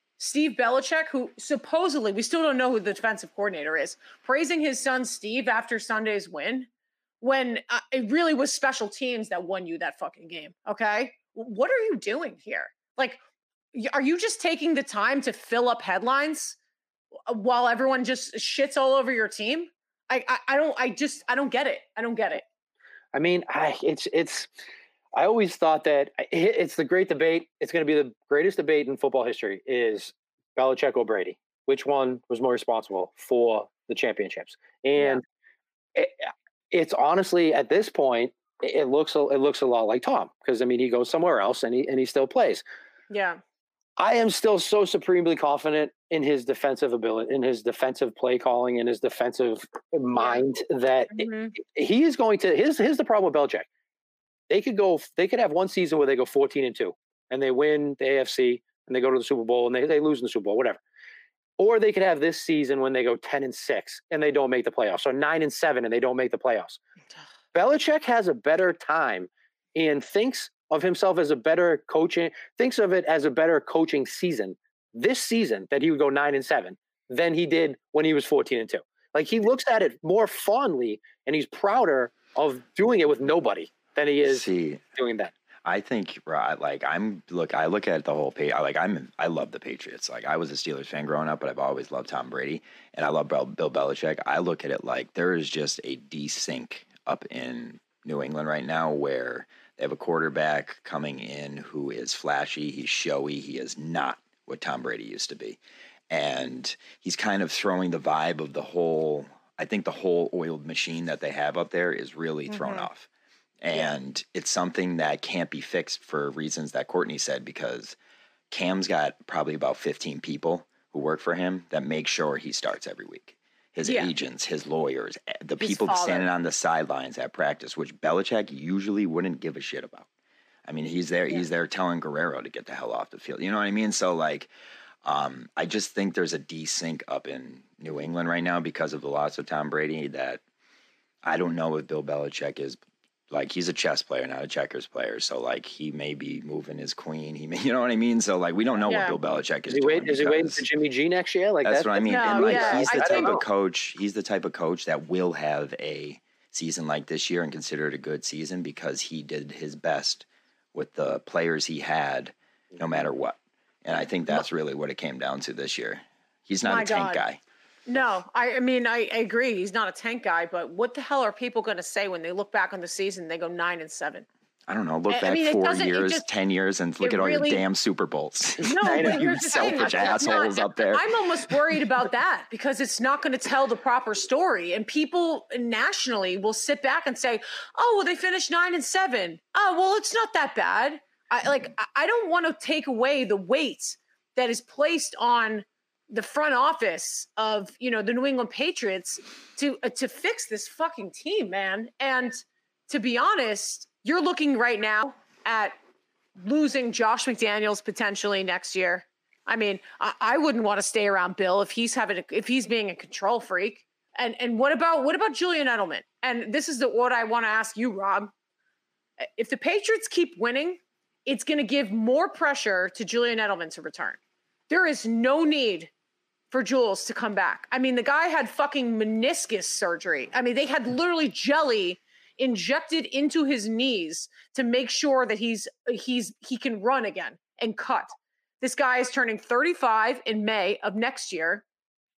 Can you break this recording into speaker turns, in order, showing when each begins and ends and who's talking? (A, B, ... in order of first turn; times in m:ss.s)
0:00.2-0:06.7 A
0:07.2-0:13.2 A
0:13.7-0:16.6 A
0:17.3-0:22.4 A
0:23.1-0:24.5 B
0:25.2-0:35.2 B
0:35.0-0:35.2 A
0:35.9-0:42.6 B
0:43.1-0:43.4 A
0:44.0-0:53.7 B
0:50.2-0:50.4 A
0:51.1-0:51.5 A
0:54.5-1:00.8 B
1:01.6-1:06.8 B
1:07.5-1:25.3 B
1:24.2-1:24.8 C
1:25.6-1:45.6 C
1:46.1-1:53.1 C
1:52.5-1:52.9 A
1:53.6-1:58.0 C
1:58.5-2:10.1 C
2:03.8-2:04.1 A
2:05.6-2:06.3 A
2:10.7-2:14.5 C
2:15.0-2:20.4 C
2:21.2-2:22.8 C
2:23.3-2:30.6 C
2:28.8-2:29.2 A
2:29.7-2:33.4 B
2:31.6-2:47.4 C
2:32.1-2:33.4 A
2:46.6-2:47.2 A
2:47.9-2:54.2 A
2:54.7-3:01.5 C
2:55.1-2:56.2 A
2:57.0-2:57.6 A
2:58.6-3:25.8 A
2:58.8-3:00.3 B
3:26.4-3:38.3 A
3:39.2-3:45.9 A
3:46.5-4:01.6 A